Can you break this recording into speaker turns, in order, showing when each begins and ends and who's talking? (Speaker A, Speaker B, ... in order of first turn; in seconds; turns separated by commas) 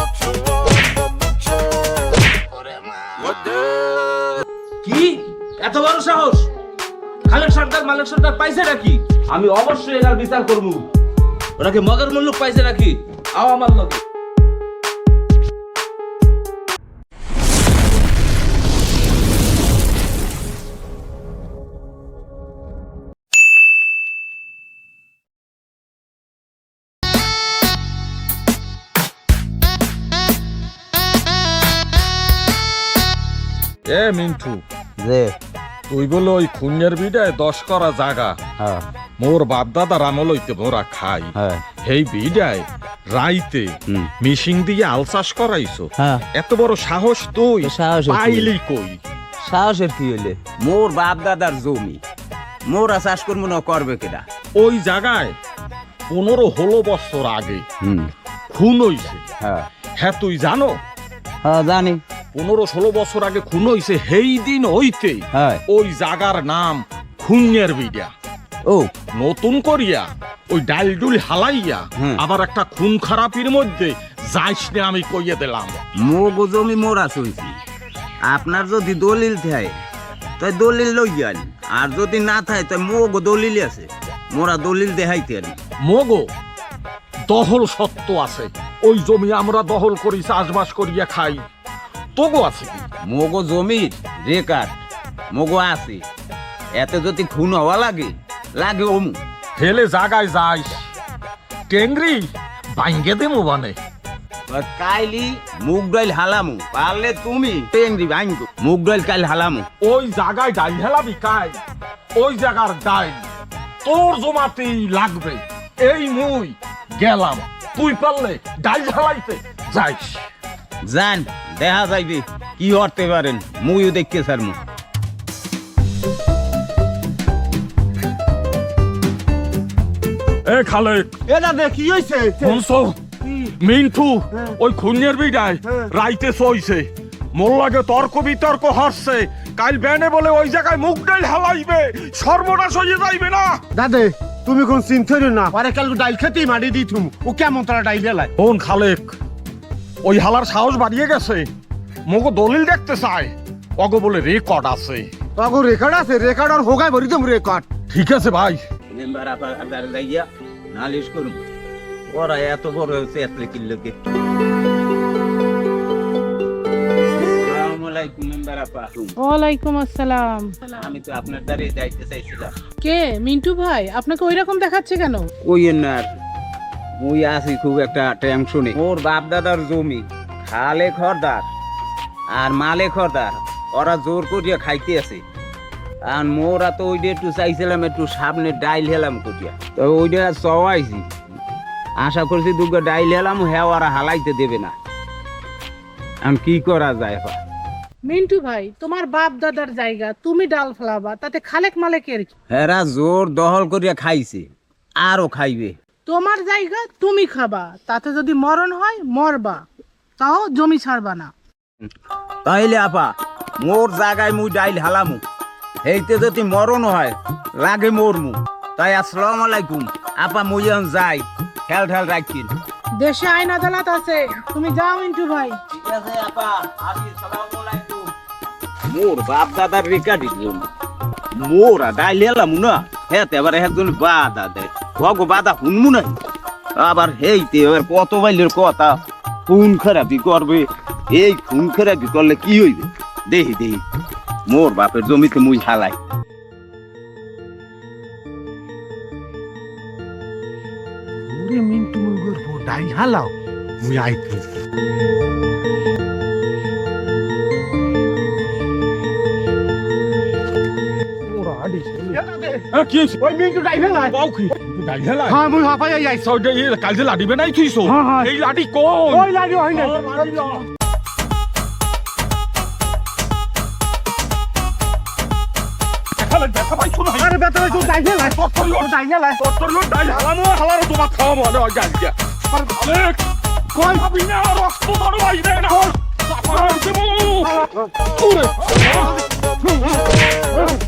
Speaker A: 2.9-3.3, Speaker B: 4.8-6.5, Speaker B: 7.3-10.9, Speaker B: 11.6-14.0, Speaker C: 33.9-34.6, Speaker A: 35.0-35.4, Speaker C: 35.9-38.4, Speaker A: 38.6-38.9, Speaker C: 39.2-41.3, Speaker A: 41.4-41.6, Speaker C: 41.8-49.0, Speaker A: 46.0-46.2, Speaker A: 47.6-48.5, Speaker A: 49.5-52.0, Speaker A: 52.7-54.3, Speaker C: 54.6-55.4, Speaker C: 56.1-57.6, Speaker A: 57.8-58.1, Speaker C: 58.5-59.3, Speaker A: 59.4-59.7, Speaker C: 60.0-60.8, Speaker A: 61.4-62.0, Speaker C: 62.3-68.1, Speaker A: 65.3-65.6, Speaker C: 69.2-75.8, Speaker A: 72.0-72.2, Speaker A: 76.0-77.6, Speaker A: 78.3-79.8, Speaker A: 80.4-85.6, Speaker C: 85.8-86.3, Speaker C: 87.3-91.5, Speaker C: 92.2-92.8, Speaker A: 93.1-94.8, Speaker A: 95.3-96.0, Speaker A: 96.8-99.2, Speaker C: 99.6-100.9, Speaker C: 101.7-103.8, Speaker A: 104.5-109.7, Speaker C: 109.8-111.6, Speaker C: 112.2-113.2, Speaker C: 113.8-120.3, Speaker A: 120.8-124.6, Speaker C: 130.4-131.1, Speaker D: 131.3-132.6, Speaker C: 132.4-143.6, Speaker D: 143.7-148.3, Speaker C: 148.4-149.2, Speaker C: 150.0-151.5, Speaker C: 152.1-155.1, Speaker D: 155.4-157.7, Speaker C: 157.9-158.6, Speaker A: 158.9-161.4, Speaker A: 162.1-164.0, Speaker A: 167.2-169.2, Speaker E: 169.2-170.7, Speaker A: 170.7-172.6, Speaker E: 172.8-175.3, Speaker A: 175.4-176.1, Speaker A: 177.0-181.5, Speaker A: 182.3-185.2, Speaker A: 186.1-191.1, Speaker A: 192.0-194.7, Speaker A: 196.2-197.4, Speaker E: 198.1-202.3, Speaker A: 202.5-204.5, Speaker A: 205.0-205.8, Speaker E: 206.1-209.7, Speaker E: 210.2-211.3, Speaker A: 212.4-215.2, Speaker A: 215.8-222.5, Speaker E: 223.0-225.6, Speaker A: 225.7-228.1, Speaker A: 228.9-230.7, Speaker A: 231.4-236.2, Speaker A: 236.8-243.8, Speaker A: 244.5-246.0, Speaker D: 251.3-254.4, Speaker C: 261.3-262.2, Speaker D: 262.1-262.7, Speaker C: 262.7-263.2, Speaker D: 263.2-264.1, Speaker C: 264.1-265.4, Speaker D: 265.3-266.2, Speaker C: 266.2-270.7, Speaker D: 267.9-268.3, Speaker D: 269.1-270.4, Speaker C: 276.2-283.2, Speaker D: 277.2-279.4, Speaker D: 283.7-284.0, Speaker C: 283.8-287.6, Speaker D: 287.4-287.9, Speaker C: 288.1-289.1, Speaker D: 288.8-289.2